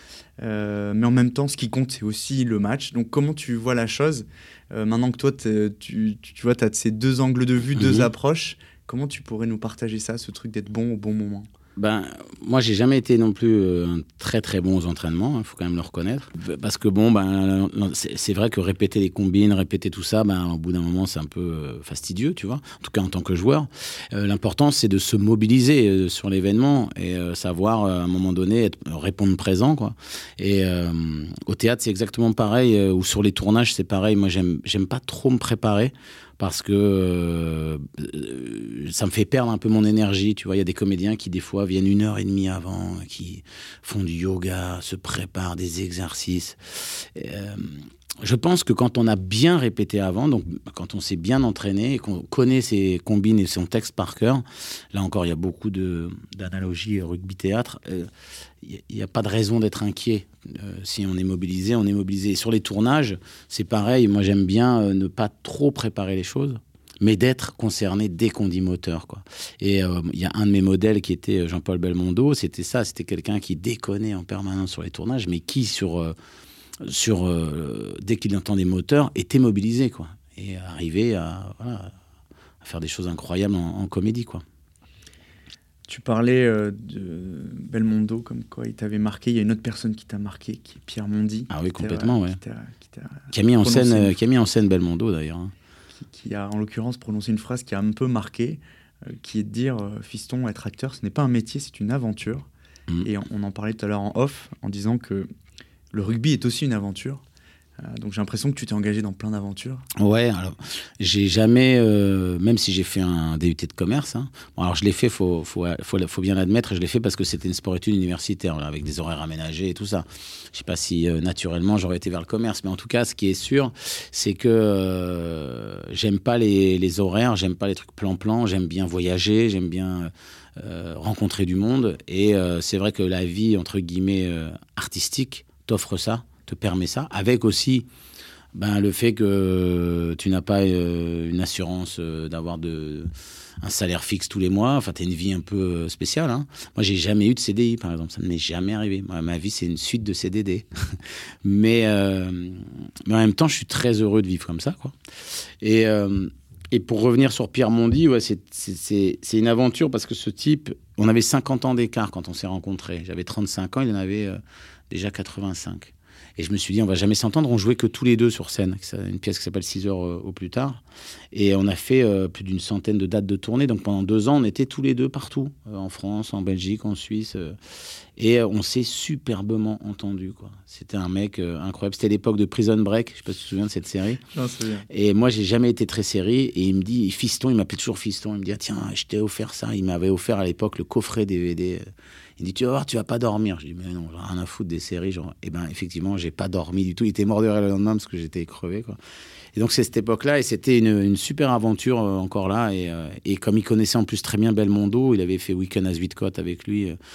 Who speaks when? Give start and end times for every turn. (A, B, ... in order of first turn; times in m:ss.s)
0:00.4-0:11.5 A
0:07.8-0:08.1 B
0:11.8-0:58.1 B
0:58.6-1:16.2 B
1:16.8-1:21.9 B
1:22.6-1:24.4 B
1:25.9-1:34.2 A
1:31.5-1:32.4 B
1:33.3-1:35.5 B
1:36.0-1:42.5 A
1:43.0-1:45.3 A
1:45.9-1:47.2 A
1:47.8-1:49.9 A
1:50.0-2:17.9 B
2:18.5-2:23.1 B
2:23.6-2:35.0 B
2:35.6-2:50.8 B
2:51.3-2:57.6 B
2:58.2-3:04.2 B
3:04.3-3:04.9 A
3:04.9-3:11.8 B
3:12.4-3:19.0 B
3:19.6-3:27.0 B